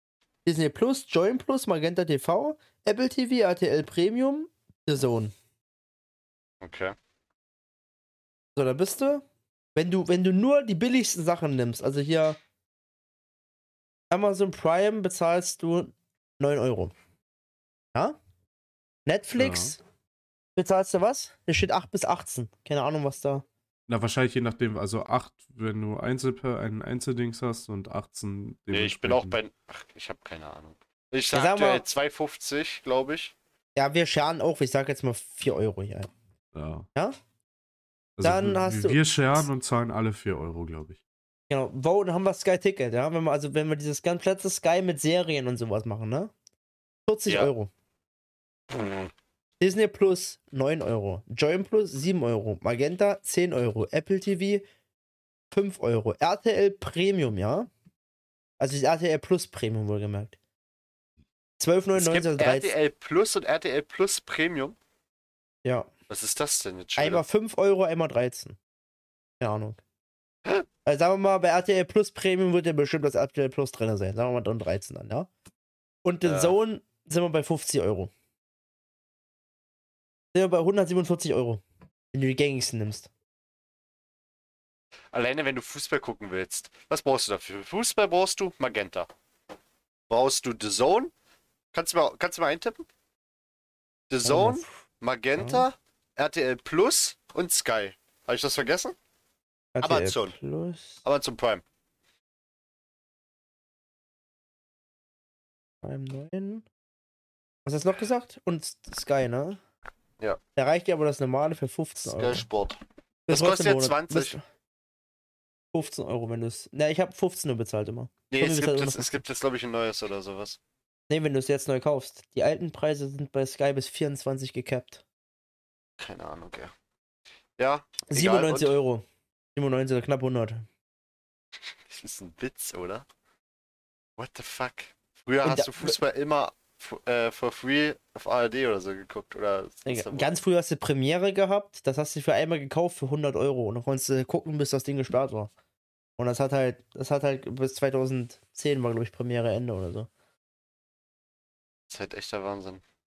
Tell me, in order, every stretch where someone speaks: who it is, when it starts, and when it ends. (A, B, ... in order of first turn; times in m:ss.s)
0:00.4-0:05.3 A
0:06.6-0:06.9 B
0:08.6-0:09.2 A
0:09.8-0:12.4 A
0:14.1-0:16.9 A
0:19.0-0:19.8 A
0:19.4-0:19.7 C
0:20.6-0:23.4 A
0:23.9-0:29.4 C
0:28.7-0:33.3 B
0:31.3-0:31.8 A
0:33.8-0:36.1 A
0:36.5-0:36.9 C
0:38.2-0:41.0 C
0:38.2-0:39.4 A
0:41.5-0:46.3 A
0:47.1-0:47.7 A
0:48.7-0:49.1 B
0:49.6-0:54.6 A
0:55.5-0:57.7 A
0:58.6-1:00.4 A
1:01.6-1:02.7 A
1:02.0-1:04.8 B
1:06.1-1:07.2 B
1:07.0-1:08.6 A
1:09.4-1:09.8 A
1:10.8-1:15.3 A
1:16.0-1:18.1 A
1:16.2-1:16.5 B
1:20.3-1:23.1 A
1:25.1-1:29.1 B
1:30.1-1:31.1 B
1:31.7-1:32.8 B
1:34.1-1:38.9 B
1:34.2-1:34.7 A
1:35.4-1:35.7 A
1:39.7-1:41.0 A
1:39.8-1:40.3 B
1:41.0-1:41.6 B
1:45.8-1:46.6 A
1:47.6-1:49.6 A
1:50.6-1:52.4 A
1:52.0-1:54.3 B
1:53.3-1:54.4 A
1:55.7-1:59.1 A
1:58.3-2:00.6 B
2:01.1-2:05.0 A
2:06.0-2:06.7 B
2:07.6-2:08.7 B
2:08.1-2:10.6 A
2:11.9-2:13.0 B
2:14.2-2:20.3 B
2:15.4-2:16.0 A
2:19.8-2:25.5 A
2:26.2-2:30.1 A
2:31.9-2:32.8 B